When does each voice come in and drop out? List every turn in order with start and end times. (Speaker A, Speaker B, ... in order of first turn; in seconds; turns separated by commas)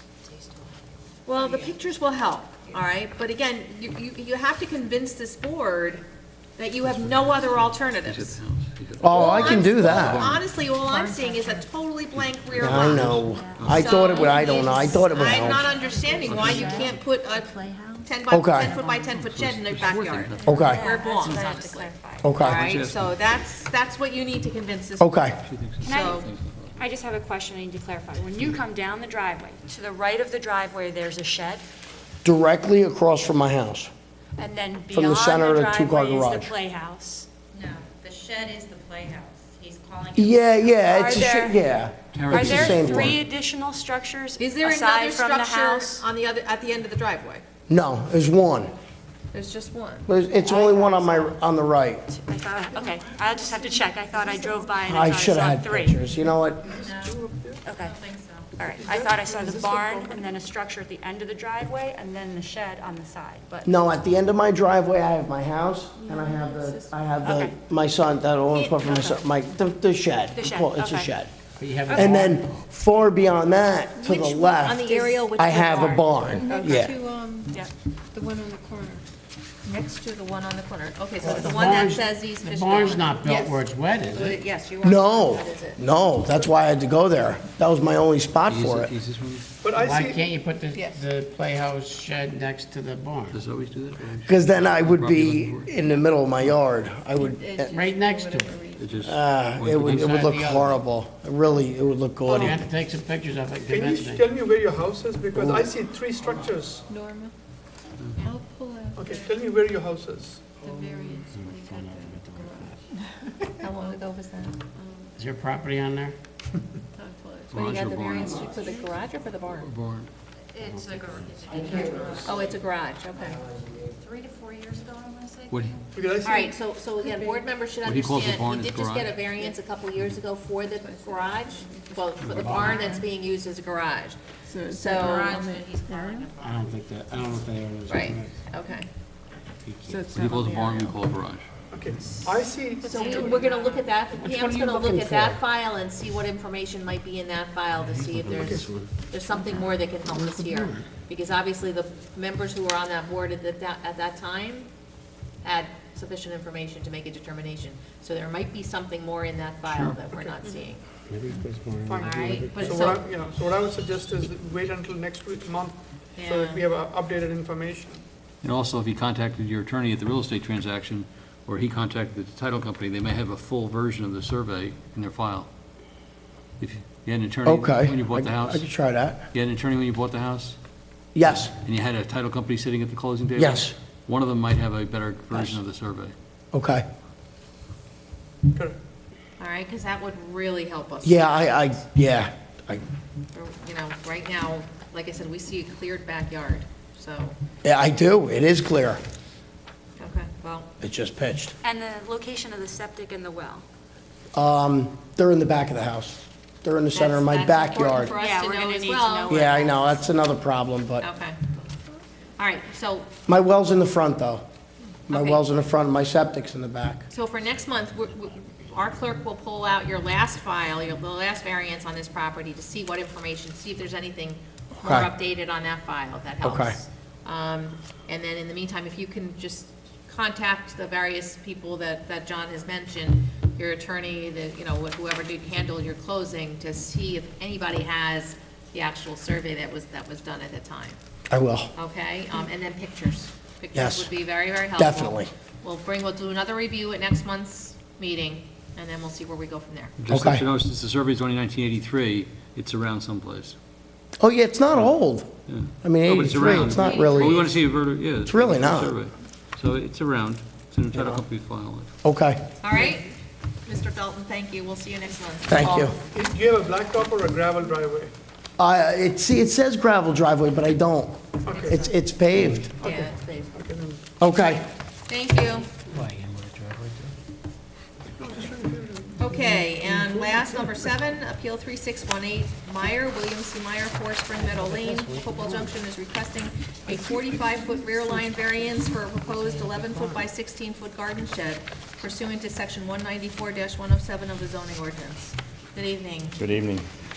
Speaker A: 0.3-0.8, Speaker B: 1.3-6.0, Speaker A: 1.3-1.7, Speaker B: 6.6-8.4, Speaker C: 6.8-10.5, Speaker D: 9.0-10.3, Speaker B: 9.0-17.5, Speaker A: 10.8-11.7, Speaker C: 12.2-14.2, Speaker D: 12.6-15.7, Speaker A: 13.3-18.1, Speaker C: 16.2-17.0, Speaker B: 18.0-25.3, Speaker D: 18.3-18.7, Speaker A: 18.6-19.2, Speaker C: 19.2-20.6, Speaker A: 20.4-22.4, Speaker D: 20.5-20.8, Speaker D: 22.2-22.6, Speaker C: 22.4-23.0, Speaker D: 25.0-25.4, Speaker C: 25.4-26.8, Speaker B: 25.8-26.3, Speaker A: 25.8-31.6, Speaker D: 32.2-33.9, Speaker A: 34.4-37.3, Speaker D: 34.9-36.5, Speaker E: 37.5-40.6, Speaker D: 40.1-43.2, Speaker A: 40.9-41.6, Speaker C: 42.1-43.2, Speaker A: 42.3-46.0, Speaker B: 44.4-47.4, Speaker D: 47.7-48.7, Speaker B: 49.3-51.4, Speaker D: 50.1-52.1, Speaker A: 52.1-56.0, Speaker D: 54.8-56.6, Speaker F: 56.7-57.6, Speaker B: 56.7-57.2, Speaker A: 57.6-58.0, Speaker B: 57.7-58.5, Speaker A: 58.6-63.7, Speaker F: 58.8-60.1, Speaker D: 63.7-71.3, Speaker G: 66.0-66.9, Speaker A: 67.2-67.5, Speaker B: 68.5-69.2, Speaker A: 70.3-71.1, Speaker H: 71.6-72.6, Speaker A: 71.8-72.4, Speaker D: 71.9-77.0, Speaker B: 74.6-76.8, Speaker A: 75.0-75.3, Speaker G: 76.3-77.6, Speaker G: 78.1-79.0, Speaker B: 79.6-85.8, Speaker H: 81.2-84.4, Speaker D: 84.8-88.9, Speaker C: 88.5-89.5, Speaker F: 89.6-90.2, Speaker H: 89.7-93.4, Speaker B: 90.7-91.0, Speaker C: 93.3-95.7, Speaker D: 94.3-97.8, Speaker G: 97.2-99.0, Speaker H: 97.7-98.6, Speaker C: 98.8-100.2, Speaker D: 99.0-102.6, Speaker H: 99.8-100.7, Speaker F: 102.2-102.5, Speaker H: 102.3-104.3, Speaker F: 103.7-106.8, Speaker D: 105.4-105.6, Speaker G: 106.8-107.3, Speaker G: 108.2-109.4, Speaker F: 109.0-110.5, Speaker G: 110.5-112.7, Speaker H: 111.3-112.8, Speaker B: 113.6-114.6, Speaker G: 114.7-115.1, Speaker H: 115.2-116.2, Speaker G: 117.0-117.7, Speaker C: 117.5-118.5, Speaker B: 117.5-119.7, Speaker G: 118.5-118.9, Speaker C: 119.5-120.1, Speaker A: 120.5-122.3, Speaker H: 120.6-121.5, Speaker D: 121.5-122.5, Speaker B: 122.2-123.4, Speaker D: 123.2-123.9, Speaker A: 124.0-125.8, Speaker C: 125.5-125.8, Speaker F: 125.9-126.6, Speaker B: 126.2-134.2, Speaker G: 126.9-127.5, Speaker C: 127.8-129.2, Speaker G: 130.8-133.1, Speaker C: 132.2-132.5, Speaker H: 132.3-132.9, Speaker G: 134.5-136.3, Speaker B: 134.7-135.4, Speaker A: 135.0-135.5, Speaker E: 135.3-136.8, Speaker H: 136.4-138.4, Speaker B: 137.9-138.9, Speaker H: 139.6-140.1, Speaker G: 139.9-141.0, Speaker C: 140.1-141.4, Speaker F: 141.7-143.3, Speaker A: 142.9-143.8, Speaker B: 142.9-154.7, Speaker H: 144.2-145.4, Speaker H: 147.9-148.9, Speaker F: 148.4-148.7, Speaker H: 150.1-150.9, Speaker B: 155.4-160.8, Speaker C: 159.7-160.0, Speaker H: 161.1-163.0, Speaker F: 161.9-168.1, Speaker B: 162.0-163.0, Speaker B: 166.2-166.7, Speaker C: 168.4-175.5, Speaker C: 176.6-178.7, Speaker D: 177.4-179.2, Speaker C: 179.3-180.6, Speaker D: 181.2-181.5, Speaker C: 181.2-186.2, Speaker D: 183.4-183.8, Speaker D: 186.5-186.8, Speaker B: 189.4-191.8, Speaker D: 191.0-192.8, Speaker B: 193.3-197.4, Speaker D: 197.6-199.0, Speaker B: 200.0-200.7, Speaker D: 200.8-201.5, Speaker A: 201.6-203.6, Speaker D: 204.3-208.1, Speaker B: 206.9-209.4, Speaker A: 208.2-210.0, Speaker D: 209.3-211.1, Speaker B: 211.0-211.5, Speaker B: 212.4-213.1, Speaker D: 213.3-214.4, Speaker B: 215.1-215.4, Speaker D: 215.1-217.0, Speaker B: 217.1-241.0, Speaker D: 224.8-225.1, Speaker D: 226.4-226.8, Speaker D: 241.3-241.7, Speaker B: 241.8-249.9, Speaker D: 243.8-244.1, Speaker D: 244.8-245.3, Speaker C: 250.0-253.6, Speaker D: 250.1-250.5, Speaker D: 254.2-257.4, Speaker C: 255.5-261.9, Speaker B: 256.5-257.5, Speaker D: 258.2-258.9, Speaker D: 260.9-261.2, Speaker D: 262.0-262.4, Speaker B: 262.6-263.1, Speaker B: 263.7-265.9, Speaker D: 265.5-266.0, Speaker F: 265.6-268.1, Speaker D: 268.6-272.7, Speaker F: 271.5-274.0, Speaker A: 271.5-271.8, Speaker B: 272.8-273.5, Speaker D: 274.2-274.6, Speaker B: 275.1-275.7, Speaker H: 275.9-277.2, Speaker F: 278.2-280.9, Speaker B: 279.2-296.4, Speaker H: 284.4-285.7, Speaker H: 289.5-290.2